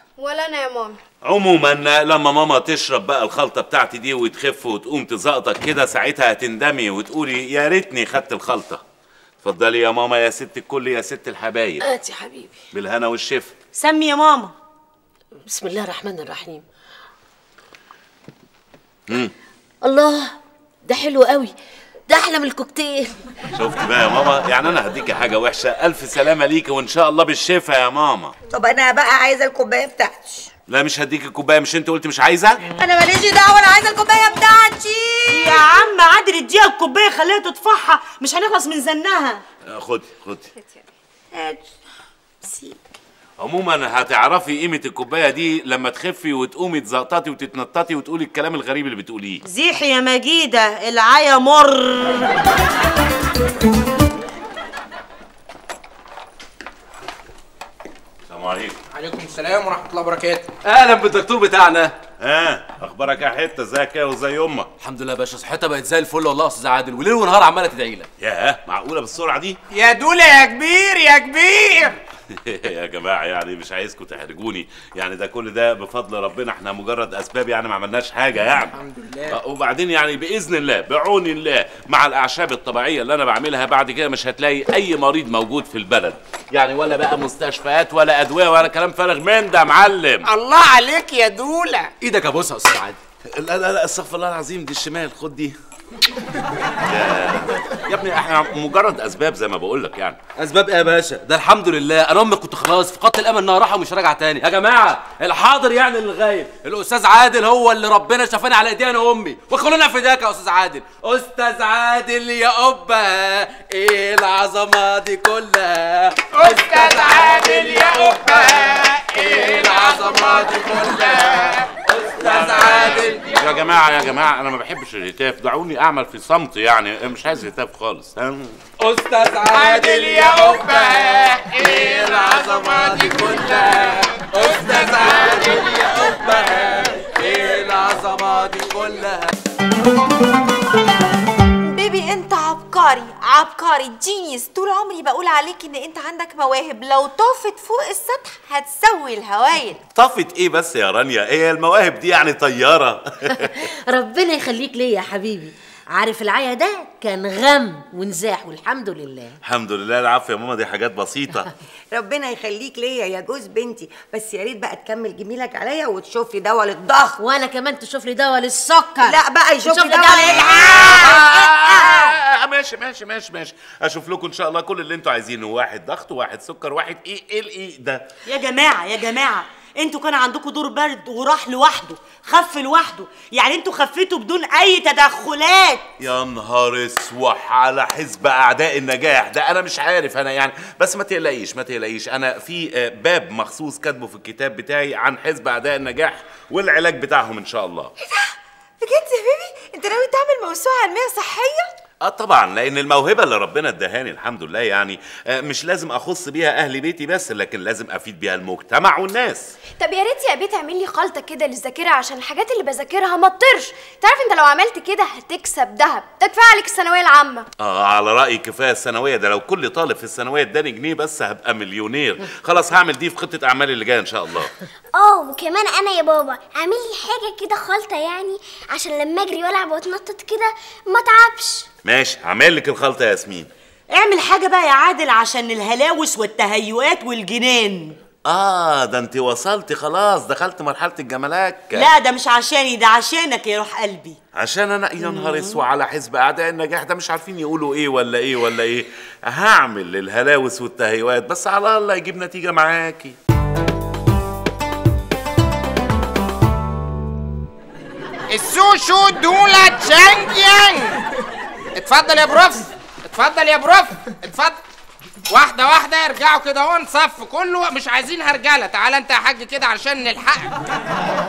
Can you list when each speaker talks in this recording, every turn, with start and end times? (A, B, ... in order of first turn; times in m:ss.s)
0:00.2-0:01.0 A
0:01.2-0:08.8 B
0:09.4-0:11.8 B
0:11.8-0:12.5 C
0:12.7-0:13.5 B
0:13.7-0:14.5 D
0:15.5-0:16.6 C
0:19.8-0:20.3 C
0:20.9-0:21.5 C
0:22.1-0:23.1 C
0:23.5-0:28.3 B
0:28.5-0:30.5 E
0:30.7-0:32.6 B
0:32.7-0:35.7 E
0:35.3-0:39.4 D
0:39.7-0:40.5 B
0:41.3-0:41.7 E
0:42.4-0:42.8 E
0:43.4-0:49.4 B
0:49.4-0:52.3 D
0:58.3-0:58.8 B
0:58.9-1:00.5 F
1:00.6-1:01.9 G
1:02.2-1:04.7 B
1:04.8-1:08.1 G
1:08.2-1:09.6 B
1:09.7-1:11.9 F
1:12.3-1:18.8 B
1:18.7-1:19.4 F
1:19.3-1:30.3 B
1:30.2-1:31.9 F
1:32.0-1:33.0 G
1:33.4-1:35.5 B
1:36.8-1:40.2 B
1:40.4-2:03.2 G
1:56.3-2:01.6 F
2:02.6-2:08.6 B
2:08.8-2:19.3 G
2:09.7-2:10.8 F
2:21.6-2:29.8 H
2:29.9-2:33.6 B
2:33.9-2:39.2 C
2:39.4-2:41.5 B
2:41.9-2:47.2 E
2:47.2-2:48.9 C
2:48.7-2:49.2 I
2:49.0-2:52.0 E
2:49.8-2:50.5 I
2:50.2-2:58.0 B
2:58.2-3:05.8 D
3:06.0-3:17.9 B
3:18.0-3:18.3 H
3:18.8-3:21.7 H
3:22.0-3:29.5 B
3:29.8-3:37.4 A
3:37.6-3:44.5 B
3:45.0-3:45.8 I
3:46.5-3:51.6 I
3:51.8-3:53.5 B
3:53.9-3:58.0 D
3:58.3-4:01.9 B
4:01.7-4:04.2 D
4:04.4-4:13.2 B
4:05.0-4:05.6 D
4:18.3-4:21.0 F
4:21.8-4:24.6 F
4:25.3-4:30.5 F